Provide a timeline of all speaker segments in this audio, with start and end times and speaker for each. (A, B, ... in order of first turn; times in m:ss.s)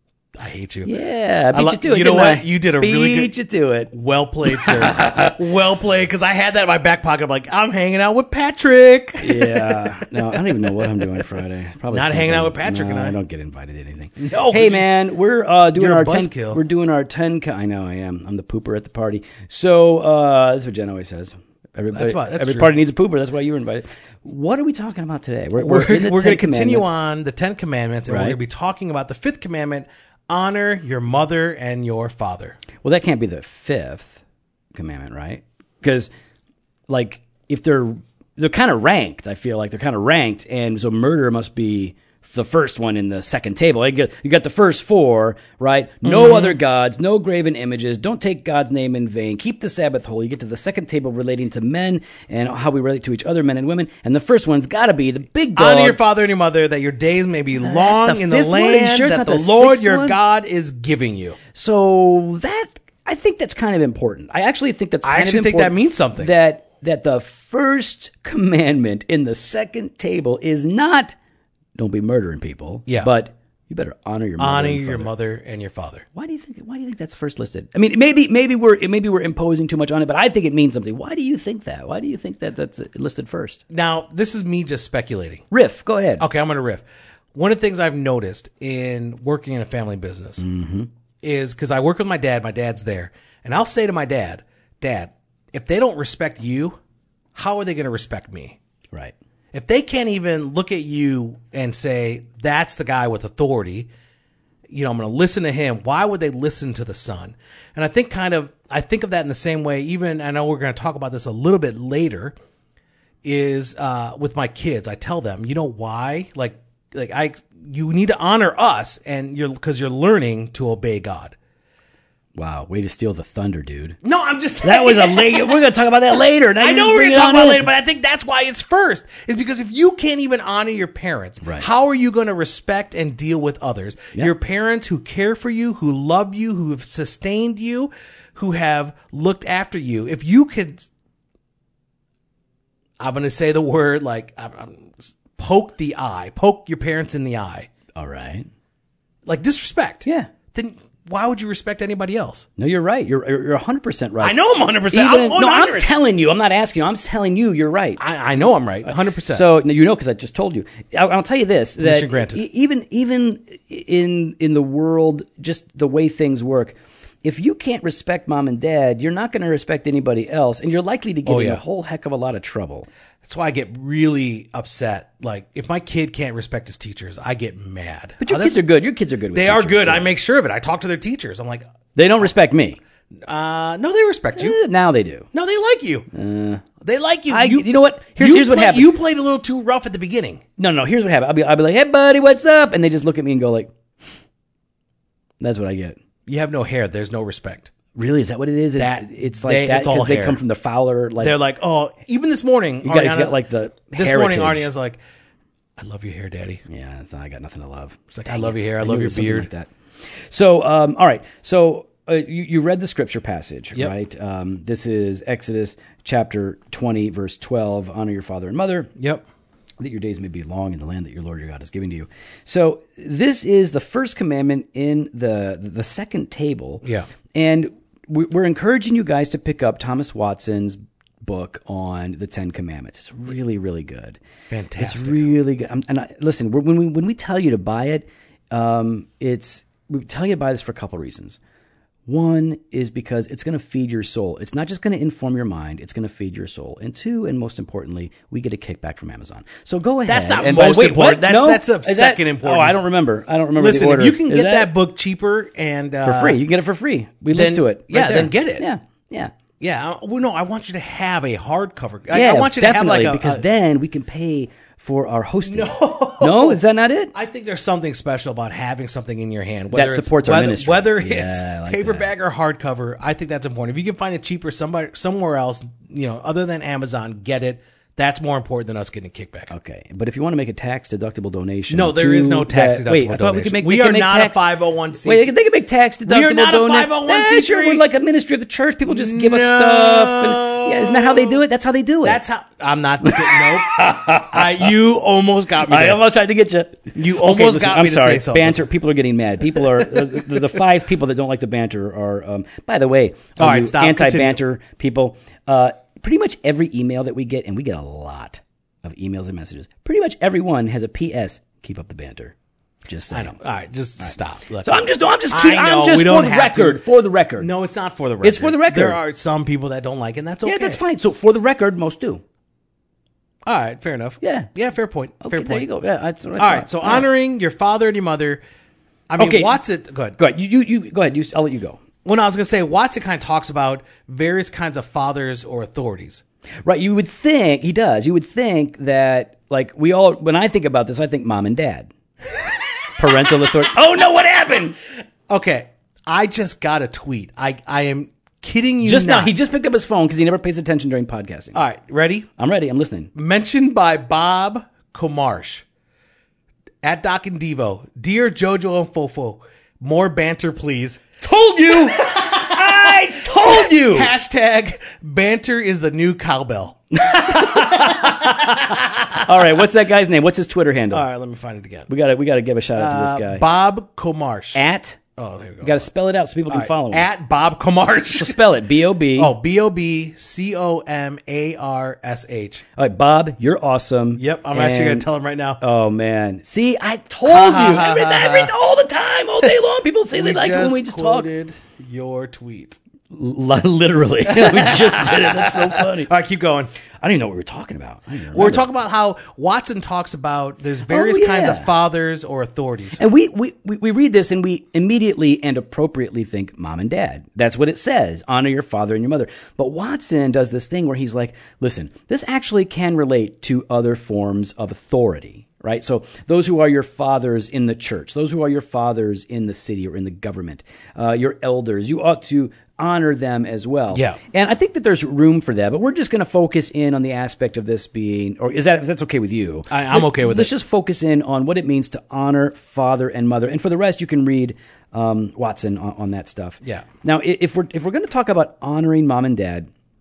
0:00.3-0:00.9 A
0:00.8-0:03.9 B
0:01.5-0:03.3 A
0:03.9-0:11.2 A
0:04.5-0:05.4 B
0:09.2-0:26.9 B
0:11.9-0:13.2 A
0:14.2-0:14.9 A
0:15.7-0:16.6 A
0:21.9-0:22.7 A
0:25.6-0:32.6 A
0:28.1-0:28.4 B
0:32.8-0:34.2 B
0:34.7-0:36.1 B
0:36.9-0:56.0 B
0:46.0-0:46.6 A
0:55.6-1:01.4 A
0:57.6-1:00.2 B
1:01.5-1:11.1 B
1:05.0-1:06.3 A
1:11.8-1:15.1 B
1:14.4-1:16.0 A
1:16.1-1:23.6 B
1:23.7-1:25.4 A
1:25.5-1:26.2 B
1:26.2-1:30.4 A
1:30.4-1:30.9 B
1:31.2-1:36.8 A
1:37.3-1:38.6 A
1:39.5-1:43.9 A
1:44.7-1:52.3 A
1:53.2-2:01.3 A
2:02.3-2:04.0 B
2:04.0-2:05.6 A
2:04.6-2:07.7 B
2:06.6-2:20.9 A
2:23.0-2:27.7 A
2:27.9-2:28.5 B
2:29.2-2:32.5 A
2:30.0-2:30.3 B
2:32.6-2:34.4 B
2:34.2-2:35.9 A
2:34.9-2:38.0 B
2:38.0-2:39.5 A
2:38.8-2:52.9 B
2:41.8-2:42.4 A
2:51.2-2:51.6 A
2:53.2-2:58.6 A
2:58.2-3:00.2 B
2:59.3-3:01.6 A
3:01.9-3:02.8 B
3:03.2-3:04.6 A
3:04.4-3:05.3 B
3:05.3-3:06.1 A
3:06.1-3:06.6 B
3:06.8-3:10.4 A
3:07.3-3:08.9 B
3:10.6-3:13.7 B
3:15.4-3:16.0 B
3:16.2-3:17.7 A
3:17.9-3:21.4 B
3:18.8-3:20.4 A
3:21.2-3:23.4 A
3:22.8-3:24.7 B
3:23.9-3:25.0 A
3:25.8-3:26.6 A
3:26.7-3:29.7 B
3:28.1-3:29.5 A
3:30.3-3:38.9 B
3:39.0-3:39.2 A
3:39.8-3:54.2 B
3:54.5-3:55.3 A
3:54.8-4:01.4 B
4:02.1-4:14.7 B
4:10.0-4:12.8 A
4:13.6-4:16.4 A
4:16.0-4:19.3 B
4:17.3-4:18.6 A
4:19.6-4:23.4 A
4:22.1-4:27.1 B
4:25.4-4:26.6 A
4:27.1-4:39.5 A
4:29.7-4:32.1 B
4:39.5-4:44.4 B
4:41.7-4:45.3 A
4:45.0-4:52.2 B
4:46.0-4:47.8 A
4:48.8-4:51.4 A
4:52.0-4:56.0 A
4:53.0-4:54.6 B
4:55.6-5:12.3 B
4:56.9-4:58.6 A
4:59.6-5:00.2 A
5:03.4-5:04.4 A
5:12.9-5:13.4 B
5:13.1-5:16.8 A
5:14.0-5:17.5 B
5:17.4-5:20.8 A
5:18.2-5:19.0 B
5:20.4-5:22.2 B
5:23.4-5:25.7 A
5:24.2-5:24.5 B
5:25.2-5:27.0 B
5:26.4-5:28.4 A
5:29.1-5:30.2 A
5:29.2-5:29.6 B
5:30.2-5:31.8 B
5:32.0-5:36.2 A
5:36.6-5:41.9 B
5:43.0-5:44.8 B
5:45.3-5:49.3 A
5:48.8-5:51.6 B
5:51.5-5:52.3 A
5:52.4-5:53.1 B
5:53.1-5:55.6 A
5:56.8-6:09.6 A
6:01.2-6:04.1 B
6:06.9-6:11.0 B
6:10.9-6:11.9 A
6:11.9-6:13.4 B
6:12.8-6:14.6 A
6:14.5-6:15.0 B
6:15.2-6:15.9 A
6:15.6-6:17.1 B
6:16.5-6:18.4 A
6:18.1-6:19.3 B
6:19.2-6:22.6 A
6:22.8-6:25.1 B
6:24.2-6:25.6 A
6:25.6-6:31.3 B
6:27.2-6:28.5 A
6:30.1-6:32.8 A
6:33.1-6:36.1 B
6:34.3-6:36.7 A
6:37.0-6:38.7 B
6:38.3-6:43.0 A
6:40.9-6:41.7 B
6:43.0-7:19.7 B
7:03.9-7:04.2 A
7:09.7-7:10.5 A